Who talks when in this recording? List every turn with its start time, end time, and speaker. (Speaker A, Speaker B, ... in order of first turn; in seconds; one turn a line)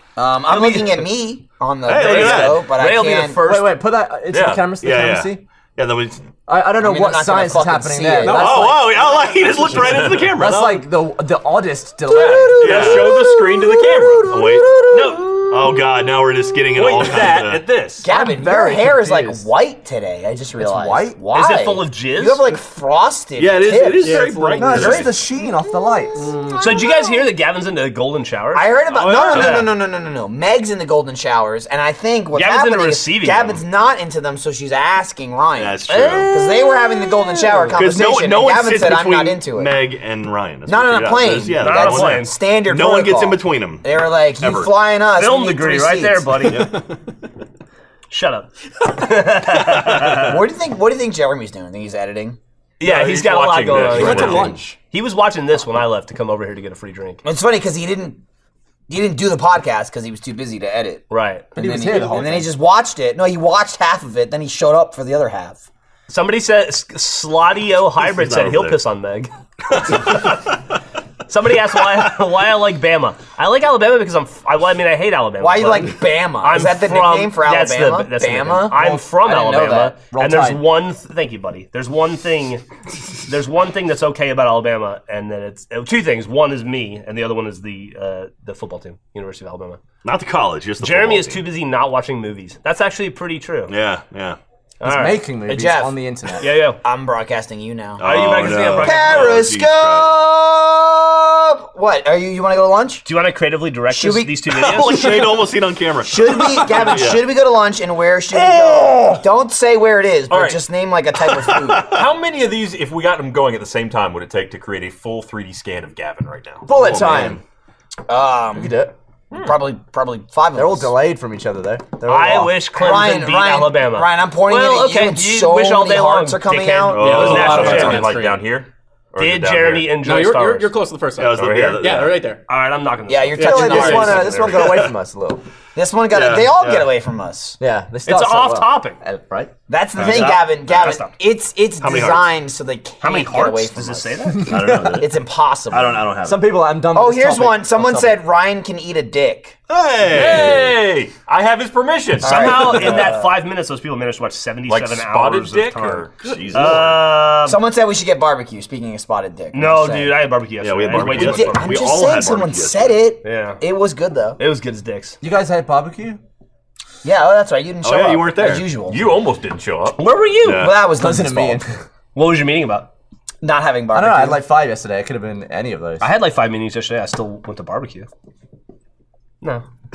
Speaker A: 0.2-3.4
Speaker B: 0.5-1.1
Speaker C: 1.9-2.7
Speaker B: 1.9-3.8
Speaker D: 3.4-5.4
Speaker E: 4.3-4.6
Speaker C: 4.8-6.3
Speaker D: 6.5-9.2
Speaker A: 6.8-8.8
Speaker C: 8.2-10.9
Speaker E: 9.8-10.2
Speaker D: 10.3-12.8
Speaker A: 12.1-15.5
Speaker E: 12.2-14.4
Speaker C: 12.6-13.2
Speaker C: 14.3-17.6
Speaker E: 14.9-15.2
Speaker E: 16.7-18.1
Speaker A: 18.0-25.1
Speaker D: 18.1-19.5
Speaker D: 20.6-21.2
Speaker B: 21.3-22.6
Speaker C: 23.4-25.1
Speaker E: 24.0-25.0
Speaker D: 24.5-26.5
Speaker A: 26.4-27.1
Speaker B: 26.6-29.7
Speaker A: 28.5-39.7
Speaker C: 28.9-29.6
Speaker B: 32.3-33.5
Speaker C: 35.6-36.3
Speaker B: 35.9-36.3
Speaker C: 37.7-44.7
Speaker A: 40.7-46.5
Speaker B: 41.5-42.4
Speaker B: 45.1-46.7
Speaker C: 46.5-46.8
Speaker B: 48.1-50.4
Speaker A: 50.1-52.4
Speaker B: 52.8-57.2
Speaker E: 52.8-54.7
Speaker D: 54.0-54.7
Speaker A: 57.2-58.2
Speaker A: 58.9-65.7
Speaker B: 61.1-61.5
Speaker D: 61.6-62.5
Speaker B: 66.1-70.3
Speaker C: 68.0-68.8
Speaker C: 69.8-70.3
Speaker B: 71.3-82.6
Speaker A: 75.4-78.9
Speaker D: 78.7-80.6
Speaker A: 79.5-79.9
Speaker B: 83.2-89.8
Speaker C: 90.0-91.5
Speaker B: 90.8-93.7
Speaker C: 93.7-94.4
Speaker B: 94.8-95.3
Speaker D: 94.8-96.5
Speaker A: 95.5-96.0
Speaker B: 96.4-96.8
Speaker A: 96.8-98.1
Speaker C: 98.0-100.1
Speaker B: 98.0-99.3
Speaker A: 98.7-103.1
Speaker B: 103.0-105.2
Speaker A: 103.9-104.4
Speaker C: 104.5-107.3
Speaker A: 106.0-111.9
Speaker E: 110.3-110.6
Speaker C: 111.4-112.0
Speaker E: 111.8-117.3
Speaker D: 116.7-117.4
Speaker A: 116.7-117.4
Speaker C: 116.8-117.3
Speaker A: 118.1-118.8
Speaker D: 118.6-118.9
Speaker A: 119.3-120.9
Speaker D: 120.5-122.5
Speaker B: 122.0-128.1
Speaker A: 122.1-127.6
Speaker C: 126.9-128.1
Speaker F: 127.0-128.4
Speaker E: 127.2-130.0
Speaker B: 129.2-130.8
Speaker F: 130.0-132.4
Speaker C: 131.2-132.2
Speaker E: 131.4-131.7
Speaker B: 132.5-134.8
Speaker A: 133.1-134.7
Speaker F: 133.4-134.2
Speaker D: 133.4-135.4
Speaker C: 134.6-134.9
Speaker A: 135.8-137.6
Speaker C: 136.1-136.9
Speaker D: 137.6-139.5
Speaker B: 138.1-139.0
Speaker A: 139.7-146.1
Speaker C: 140.0-141.0
Speaker B: 140.1-141.1
Speaker C: 141.8-142.3
Speaker B: 143.0-144.6
Speaker C: 144.4-145.2
Speaker D: 144.5-145.0
Speaker C: 145.7-146.5
Speaker D: 146.2-148.2
Speaker A: 146.9-149.6
Speaker C: 149.7-150.8
Speaker E: 150.1-153.0
Speaker B: 152.2-157.6
Speaker A: 152.2-153.2
Speaker E: 154.7-156.2
Speaker C: 156.2-157.0
Speaker A: 157.4-160.2
Speaker B: 159.5-161.8
Speaker C: 160.6-163.0
Speaker A: 160.9-164.4
Speaker B: 163.2-163.6
Speaker B: 164.4-165.2
Speaker D: 165.2-166.2
Speaker A: 167.0-169.0
Speaker C: 167.8-168.7
Speaker E: 168.9-170.0
Speaker B: 170.0-170.7
Speaker C: 170.4-170.8
Speaker A: 170.5-171.6
Speaker D: 171.0-171.8
Speaker B: 172.2-172.9
Speaker A: 173.4-174.4
Speaker D: 173.9-176.2
Speaker B: 176.0-178.1